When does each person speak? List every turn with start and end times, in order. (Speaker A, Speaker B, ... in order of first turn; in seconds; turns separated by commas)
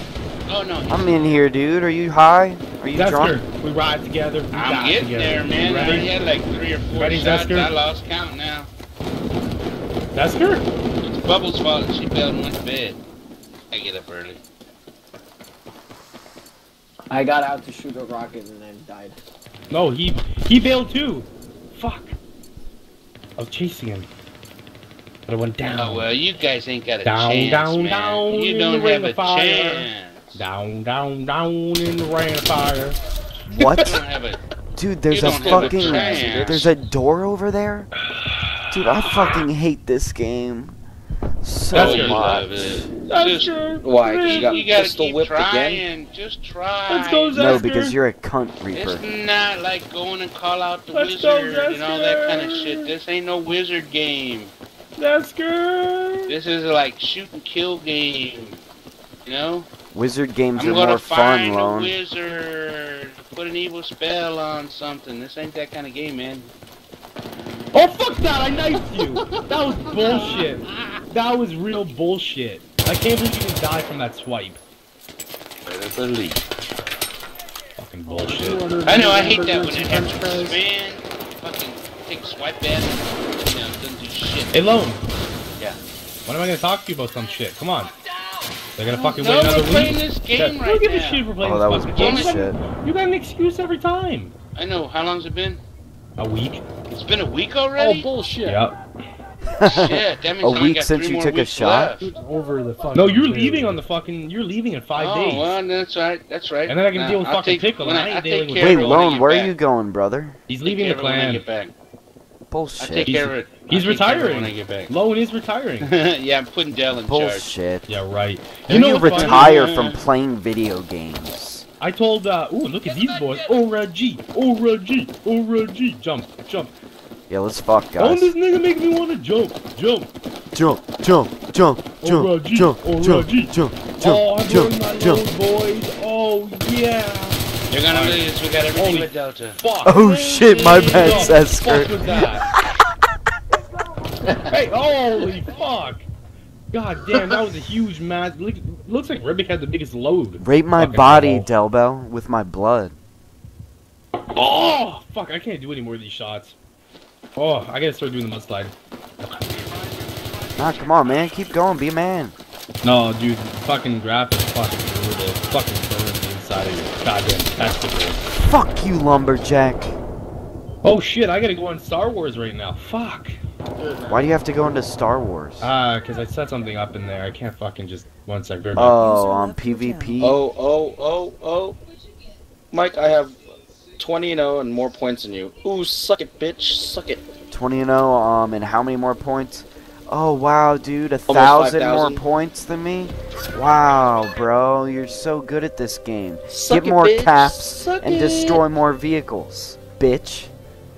Speaker A: 0.5-1.4, Speaker B: 0.9-3.4, Speaker C: 2.9-6.1, Speaker A: 4.5-8.7, Speaker C: 6.9-7.7, Speaker C: 10.1-10.7, Speaker A: 11.0-13.0, Speaker A: 13.7-14.4, Speaker D: 17.1-19.2, Speaker C: 19.7-22.2, Speaker C: 23.4-24.1, Speaker C: 25.3-26.1, Speaker A: 25.7-30.4, Speaker C: 27.0-33.0, Speaker B: 33.5-34.0, Speaker A: 33.7-34.4, Speaker B: 34.8-37.9, Speaker A: 35.1-36.7, Speaker E: 35.3-36.7, Speaker B: 38.7-40.8, Speaker B: 41.4-42.2, Speaker C: 41.7-42.4, Speaker A: 41.7-43.5, Speaker E: 41.9-42.4, Speaker C: 43.0-44.6, Speaker E: 43.8-45.8, Speaker A: 44.2-47.6, Speaker C: 46.9-48.0, Speaker B: 47.3-49.0, Speaker A: 48.7-54.5, Speaker C: 50.9-52.9, Speaker C: 55.0-56.4, Speaker A: 56.3-58.6, Speaker A: 59.2-59.7, Speaker B: 59.9-61.9, Speaker A: 60.6-66.5, Speaker C: 67.7-74.6, Speaker A: 70.1-70.5, Speaker A: 75.7-76.4, Speaker C: 77.8-78.6, Speaker F: 78.1-80.6, Speaker A: 78.8-84.6, Speaker C: 84.5-85.0, Speaker C: 86.3-87.9, Speaker C: 88.8-94.3, Speaker A: 89.1-91.3, Speaker B: 91.4-92.6, Speaker A: 92.0-92.4, Speaker A: 94.5-95.6, Speaker C: 96.2-96.6, Speaker A: 96.9-98.1, Speaker F: 97.8-98.6, Speaker C: 98.4-98.8, Speaker B: 99.5-102.0, Speaker A: 99.6-102.1, Speaker F: 102.0-103.8, Speaker C: 102.9-105.6, Speaker A: 105.0-109.5, Speaker C: 106.7-109.0, Speaker B: 108.6-110.4, Speaker C: 110.5-111.4, Speaker A: 110.7-111.7, Speaker B: 112.5-113.2, Speaker A: 112.8-114.9, Speaker C: 113.0-115.9, Speaker A: 115.8-117.5, Speaker B: 117.0-118.0, Speaker C: 117.9-119.6, Speaker B: 118.7-121.7, Speaker A: 119.0-120.0, Speaker C: 121.8-126.7, Speaker A: 122.8-123.5, Speaker B: 127.3-128.3, Speaker C: 128.0-130.1, Speaker B: 130.5-135.2, Speaker C: 132.0-142.5, Speaker A: 137.7-139.6, Speaker B: 139.8-142.0, Speaker C: 144.5-146.1, Speaker C: 146.7-151.5, Speaker B: 150.4-153.0, Speaker C: 154.3-156.6, Speaker C: 157.4-159.4, Speaker B: 160.6-162.3, Speaker C: 162.8-168.2, Speaker B: 168.4-170.0, Speaker C: 170.8-173.4, Speaker B: 174.1-175.7, Speaker C: 175.6-179.0, Speaker B: 178.7-180.4, Speaker E: 180.2-181.8, Speaker E: 182.7-183.4, Speaker E: 184.0-187.3, Speaker B: 187.5-200.5, Speaker E: 191.3-192.2, Speaker E: 196.5-198.6